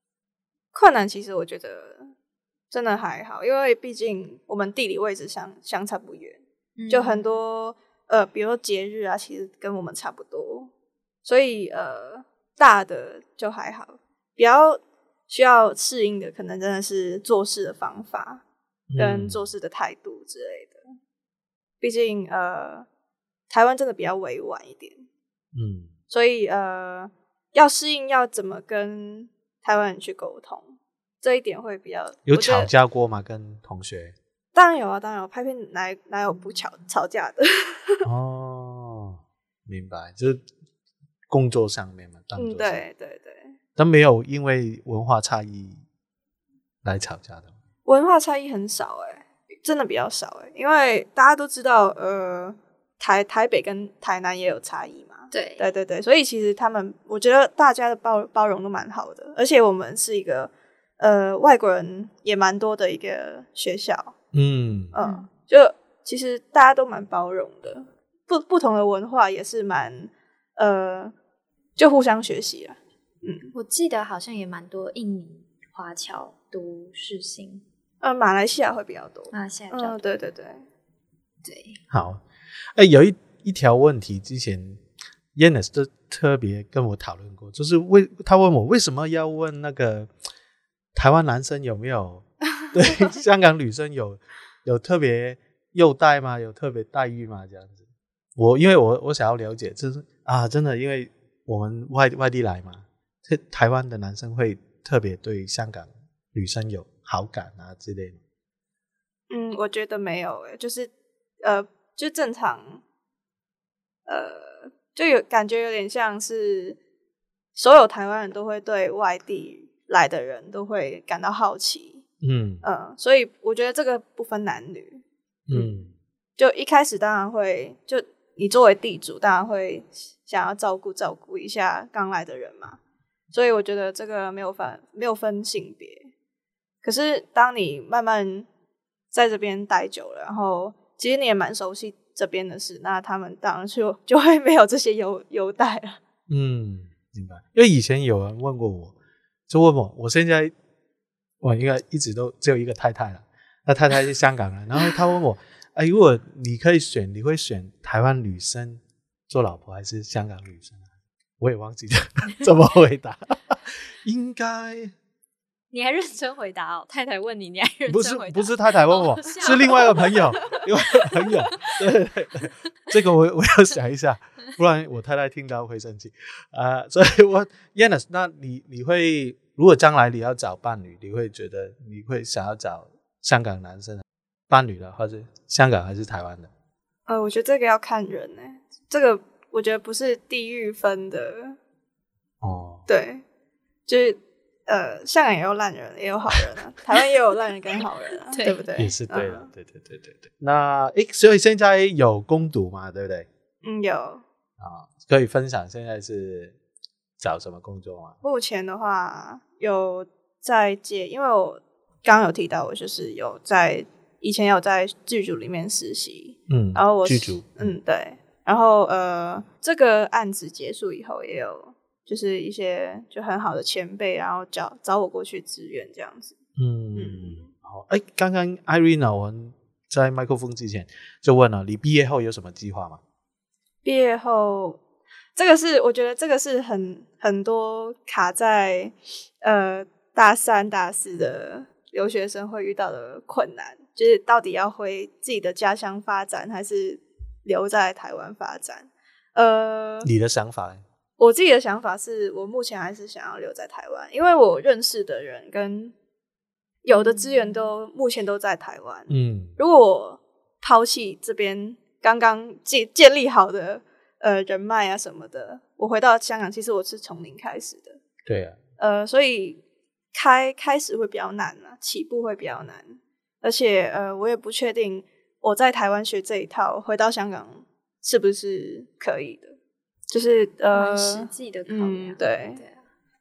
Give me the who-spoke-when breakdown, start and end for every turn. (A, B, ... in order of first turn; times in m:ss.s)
0:00.7-0:02.1 A
0:02.7-0:10.7 A
0:06.8-0:07.2 B
0:11.2-0:18.4 A
0:18.9-0:19.4 C
0:19.0-0:20.8 A
0:21.8-0:22.9 A
0:23.5-0:25.0 A
0:25.5-0:25.9 C
0:26.1-0:32.7 A
0:32.3-0:34.1 C
0:34.5-0:38.1 A
0:38.0-0:40.4 C
0:41.3-0:42.8 C
0:42.4-0:43.6 A
0:43.8-0:45.8 C
0:46.8-0:47.5 C
0:47.8-1:04.1 A
0:55.3-0:55.6 B
1:04.3-1:04.9 C
1:04.9-1:11.1 A
1:05.0-1:05.3 B
1:11.8-1:13.5 A
1:13.5-1:17.6 B
1:18.0-1:20.6 A
1:19.3-1:20.0 B
1:21.4-1:21.8 B
1:21.9-1:22.2 C
1:22.7-1:24.8 C
1:25.3-1:30.1 C
1:30.9-1:37.8 C
1:38.4-1:48.2 C
1:49.3-1:50.9 A
1:51.4-1:52.8 A
1:54.1-1:56.8 A
1:57.6-2:02.0 A
2:02.2-2:02.6 C
2:02.6-2:05.7 A
2:05.5-2:05.9 C
2:06.4-2:12.8 A
2:13.3-2:16.1 A
2:16.8-2:18.5 A
2:19.1-2:26.0 A
2:26.3-2:28.9 C
2:29.5-2:30.5 C
2:31.4-2:40.8 C
2:41.4-2:44.9 C
2:45.7-2:51.8 B
2:47.9-3:06.5 C
3:07.1-3:11.6 A
3:12.4-3:12.8 C
3:12.9-3:13.2 A
3:13.9-3:19.5 A
3:18.3-3:18.7 B
3:18.8-3:23.3 C
3:23.6-3:24.2 A
3:24.6-3:26.6 C
3:27.2-3:28.2 C
3:28.2-3:46.4 A
3:36.5-3:37.7 C
3:46.6-3:53.0 C
3:47.0-3:47.5 A
3:53.8-3:54.8 A
3:55.4-4:10.1 A
4:10.0-4:10.8 C
4:11.2-4:15.9 A
4:16.8-4:28.0 A
4:17.0-4:17.4 B
4:19.1-4:19.5 C
4:28.2-4:28.6 C
4:28.8-4:29.6 A
4:30.1-4:39.6 A
4:40.1-4:42.6 A
4:40.7-4:42.8 B